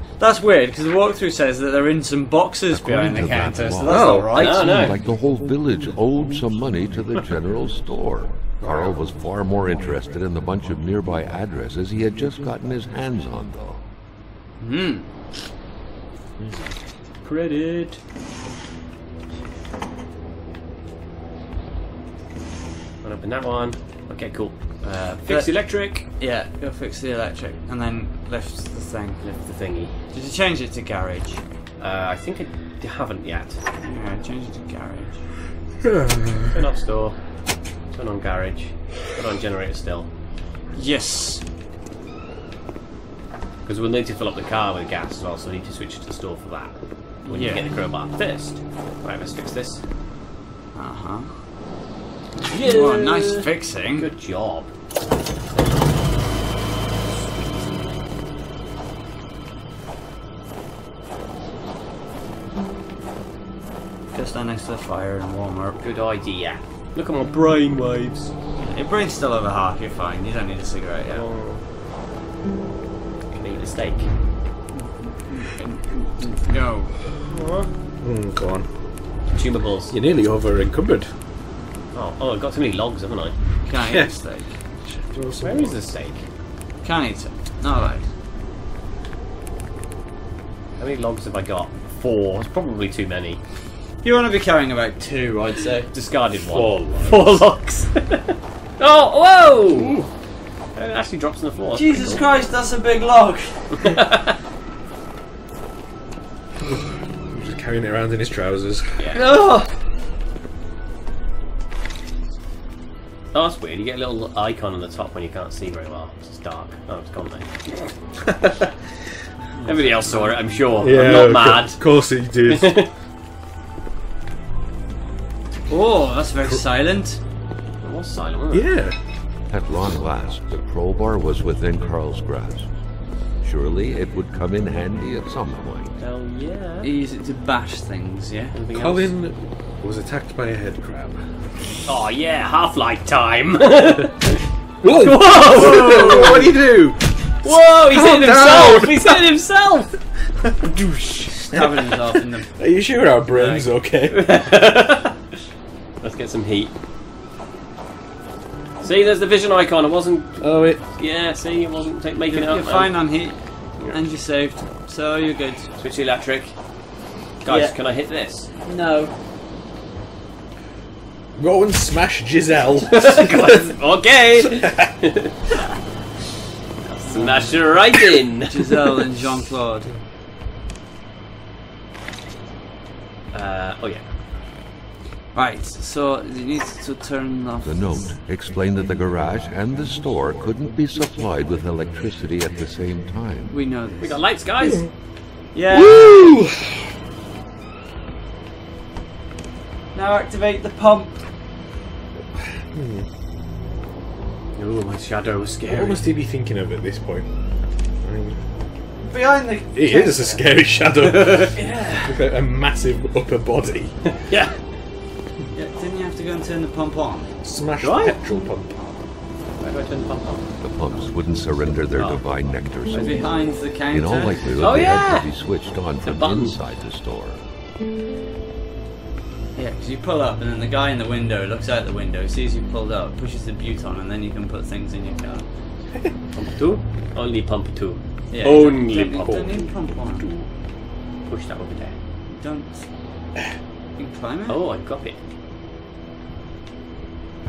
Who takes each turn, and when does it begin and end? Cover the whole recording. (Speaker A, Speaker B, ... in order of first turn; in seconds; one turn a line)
Speaker A: 0.2-4.7
Speaker B: 2.7-13.8
Speaker C: 3.8-4.9
Speaker D: 4.3-5.0
Speaker A: 14.6-15.1
Speaker D: 17.2-18.0
Speaker D: 23.0-26.1
Speaker A: 25.2-29.3
Speaker D: 29.2-30.0
Speaker A: 29.9-31.4
Speaker D: 31.8-33.6
Speaker A: 33.8-35.2
Speaker D: 36.5-40.1
Speaker A: 40.7-41.4
Speaker D: 43.7-49.8
Speaker A: 47.3-47.7
Speaker A: 50.7-51.3
Speaker A: 52.5-54.1
Speaker D: 52.5-54.7
Speaker A: 64.1-65.8
Speaker D: 65.8-68.3
Speaker A: 68.6-71.3
Speaker D: 71.1-71.6
Speaker D: 73.3-74.1
Speaker A: 74.7-77.0
Speaker D: 77.3-77.7
Speaker C: 78.0-78.7
Speaker D: 79.3-80.0
Speaker C: 79.9-81.1
Speaker D: 81.9-83.4
Speaker A: 83.6-84.6
Speaker C: 83.8-84.2
Speaker C: 84.8-85.8
Speaker D: 85.4-86.2
Speaker A: 86.8-88.1
Speaker D: 90.8-93.4
Speaker A: 94.0-95.9
Speaker D: 95.9-100.0
Speaker C: 96.5-97.4
Speaker C: 99.7-100.1
Speaker D: 100.8-102.3
Speaker A: 101.7-104.0
Speaker D: 103.8-104.3
Speaker C: 106.6-109.1
Speaker D: 109.0-109.2
Speaker A: 109.1-109.7
Speaker D: 113.3-117.9
Speaker A: 119.4-120.9
Speaker D: 119.7-122.9
Speaker C: 120.8-122.8
Speaker A: 125.7-127.2
Speaker D: 127.8-128.7
Speaker C: 128.5-129.0
Speaker B: 129.5-132.7
Speaker B: 133.4-136.0
Speaker D: 136.0-136.9
Speaker A: 136.8-138.6
Speaker D: 138.5-139.2
Speaker C: 138.7-141.3
Speaker D: 141.9-146.5
Speaker C: 144.8-147.1
Speaker D: 147.4-149.9
Speaker C: 147.9-149.3
Speaker C: 150.5-152.0
Speaker A: 151.5-152.5
Speaker C: 152.6-154.2
Speaker A: 153.3-153.7
Speaker D: 154.1-155.2
Speaker D: 156.0-156.7
Speaker D: 158.8-163.0
Speaker C: 160.4-160.8
Speaker A: 162.3-165.7
Speaker D: 165.8-166.6
Speaker D: 167.4-168.5
Speaker A: 167.5-167.8
Speaker A: 168.6-169.1
Speaker C: 171.4-173.7
Speaker D: 172.9-175.3
Speaker C: 174.5-174.9
Speaker D: 176.8-179.1
Speaker A: 177.0-177.8
Speaker A: 178.5-179.9
Speaker D: 183.3-184.1
Speaker A: 185.3-188.1
Speaker B: 187.6-193.5
Speaker A: 193.5-194.2
Speaker D: 194.0-194.8
Speaker C: 194.6-194.9
Speaker A: 195.5-196.3
Speaker C: 195.7-196.9
Speaker A: 199.9-201.2
Speaker C: 202.7-203.1
Speaker D: 204.6-206.1
Speaker C: 205.7-207.3
Speaker C: 208.0-208.4
Speaker A: 209.0-210.5
Speaker C: 209.7-214.1
Speaker D: 211.1-211.5
Speaker A: 211.5-212.2
Speaker D: 214.3-214.6
Speaker A: 215.5-217.3
Speaker C: 217.4-218.8
Speaker D: 217.8-218.2
Speaker D: 219.6-220.5
Speaker B: 220.6-227.4
Speaker D: 221.9-222.3
Speaker A: 222.9-224.5
Speaker D: 224.6-225.5
Speaker D: 226.0-226.6
Speaker A: 229.6-235.5
Speaker D: 236.3-239.7
Speaker A: 238.3-240.3
Speaker C: 239.2-239.7
Speaker D: 240.2-240.5
Speaker D: 241.3-241.9
Speaker A: 242.3-242.9
Speaker A: 244.0-244.6
Speaker D: 244.5-245.2